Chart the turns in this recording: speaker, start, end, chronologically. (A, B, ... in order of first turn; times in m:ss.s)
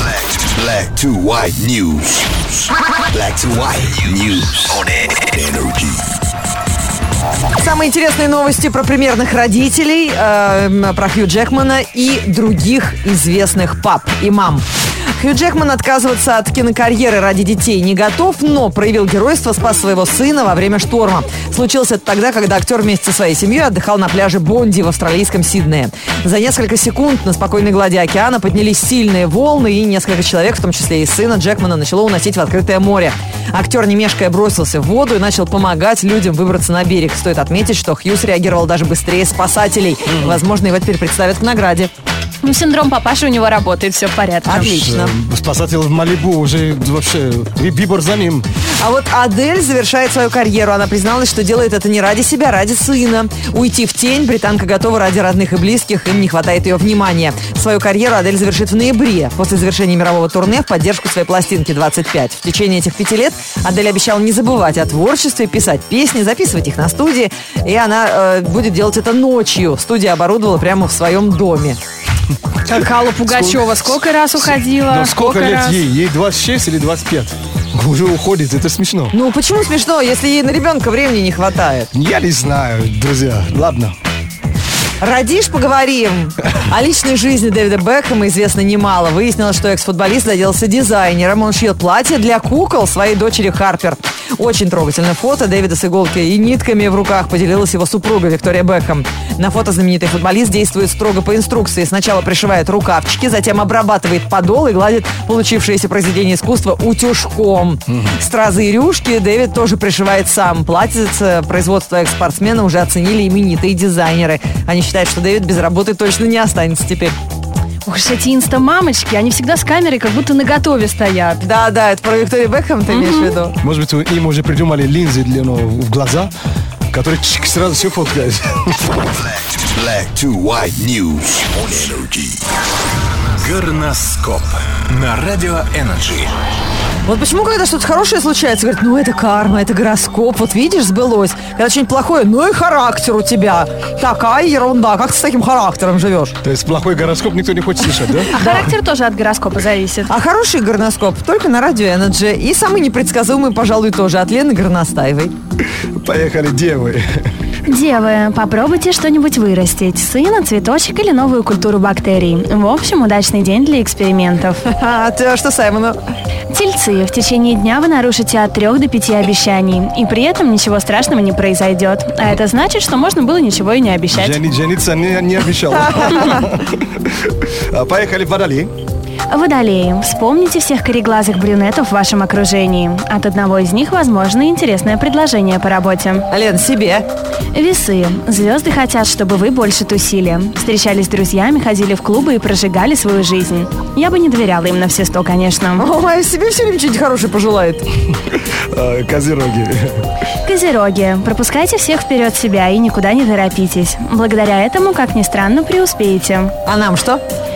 0:00.2-0:06.0 A
0:07.6-0:14.6 B
0:15.2-0:41.9 B
0:40.1-0:40.4 C
0:42.4-0:44.6 D
0:44.4-0:45.1 B
0:44.5-0:48.5 C
0:48.8-1:11.8 B
1:12.6-1:19.1 C
1:12.7-1:15.8 D
1:19.1-1:21.9 B
1:21.9-1:24.0 C
1:25.0-1:57.2 B
1:47.9-1:48.2 C
1:57.8-2:01.4 D
2:01.4-2:03.5 B
2:02.9-2:03.4 D
2:03.6-2:06.3 C
2:06.9-2:08.7 C
2:09.5-2:12.4 A
2:13.4-2:16.3 E
2:17.0-2:26.4 B
2:26.4-2:28.4 C
2:28.3-2:28.6 B
2:28.3-2:30.1 D
2:30.1-2:35.3 B
2:35.9-2:37.2 C
2:37.7-2:44.6 D
2:44.7-2:46.0 B
2:46.5-2:54.4 D
2:54.1-2:58.7 C
2:55.9-2:56.4 B
2:59.3-3:06.3 D
3:06.3-3:07.1 B
3:07.5-3:15.8 D
3:15.8-3:17.8 B
3:18.3-3:20.0 C
3:20.4-3:26.5 D
3:26.6-3:27.2 B